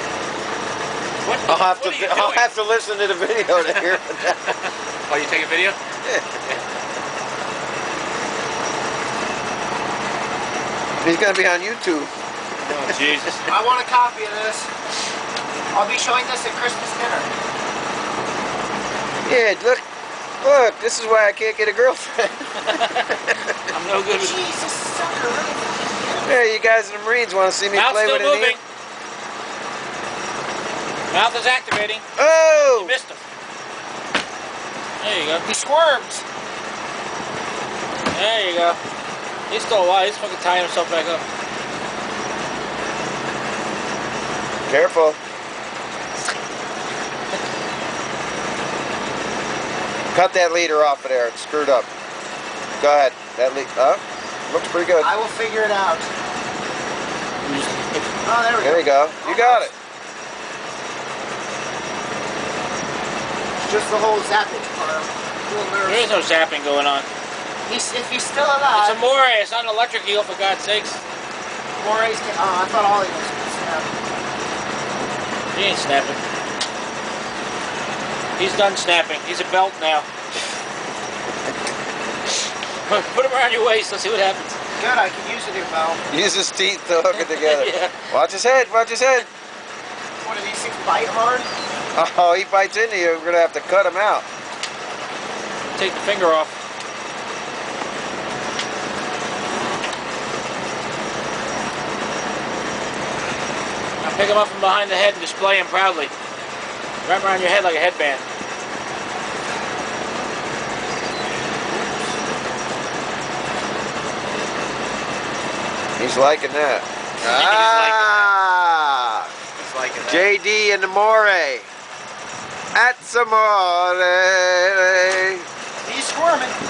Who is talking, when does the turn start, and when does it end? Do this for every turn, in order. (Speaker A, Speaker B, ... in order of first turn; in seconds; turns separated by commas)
Speaker A: 1.2-2.5, Speaker B: 1.4-4.5, Speaker A: 3.5-5.8, Speaker B: 11.0-12.1, Speaker A: 12.6-13.5, Speaker C: 13.4-14.7, Speaker C: 15.7-17.3, Speaker B: 19.2-19.8, Speaker B: 20.4-23.4, Speaker A: 22.6-23.1, Speaker A: 23.7-24.4, Speaker C: 24.1-26.3, Speaker B: 26.2-28.6, Speaker A: 27.7-28.6, Speaker A: 31.1-32.0, Speaker B: 32.2-33.0, Speaker A: 32.7-33.2, Speaker A: 35.0-35.5, Speaker C: 35.5-36.2, Speaker A: 38.1-38.8, Speaker A: 39.5-41.2, Speaker B: 44.7-45.2, Speaker B: 50.1-51.9, Speaker B: 52.8-55.1, Speaker C: 55.0-56.1, Speaker A: 57.4-58.0, Speaker C: 58.2-59.7, Speaker B: 58.6-59.7, Speaker C: 63.6-66.2, Speaker A: 65.8-67.1, Speaker C: 67.7-69.1, Speaker A: 68.7-71.0, Speaker C: 71.8-73.9, Speaker A: 75.5-76.2, Speaker A: 78.4-80.0, Speaker A: 82.8-84.6, Speaker C: 84.8-86.0, Speaker B: 86.1-89.3, Speaker A: 87.1-87.9, Speaker C: 90.2-91.5, Speaker B: 91.9-94.2, Speaker A: 95.7-96.5, Speaker A: 104.0-106.1, Speaker A: 107.0-108.2, Speaker B: 116.0-119.3, Speaker A: 117.2-118.3, Speaker A: 119.6-120.3, Speaker B: 120.1-121.7, Speaker B: 122.7-125.5, Speaker C: 125.8-126.6